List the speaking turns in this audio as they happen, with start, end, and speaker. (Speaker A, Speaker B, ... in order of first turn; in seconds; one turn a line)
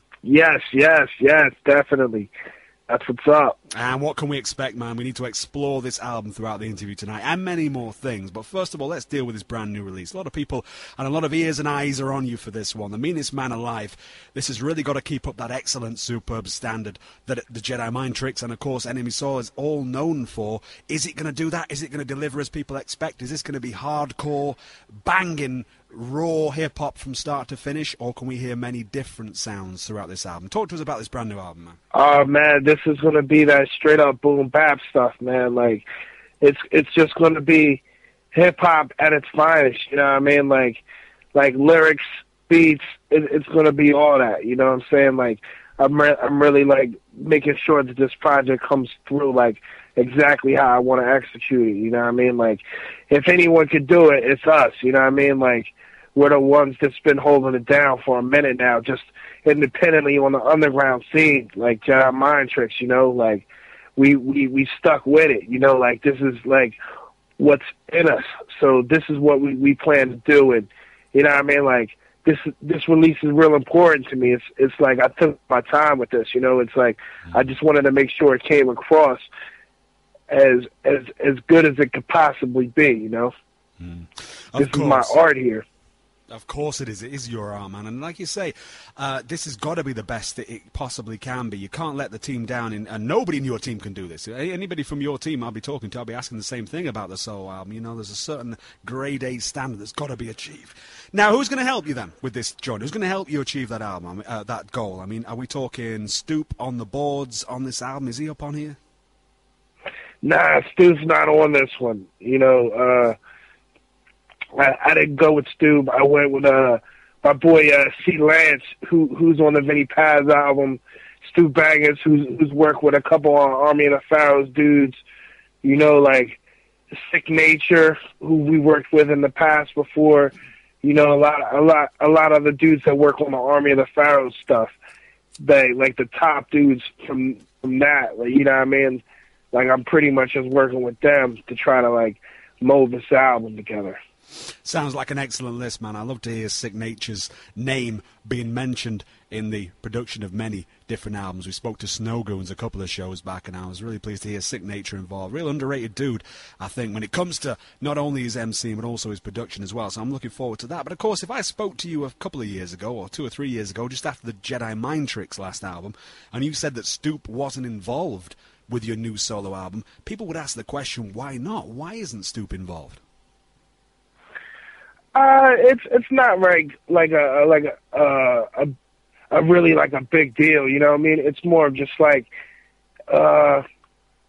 Speaker A: 0.2-2.3
Speaker A: 2.9-3.6
Speaker B: 3.7-31.8
Speaker A: 31.9-35.8
Speaker A: 36.4-37.8
Speaker A: 38.3-40.8
Speaker A: 41.3-66.8
Speaker A: 67.4-79.3
Speaker A: 80.3-83.3
Speaker B: 83.8-85.2
Speaker A: 84.6-85.6
Speaker B: 86.3-108.8
Speaker A: 110.2-113.2
Speaker A: 114.5-125.0
Speaker A: 125.6-126.4
Speaker A: 127.0-134.7
Speaker A: 135.4-144.0
Speaker B: 144.6-173.0
Speaker A: 175.1-178.7
Speaker A: 179.3-182.3
Speaker A: 183.1-183.6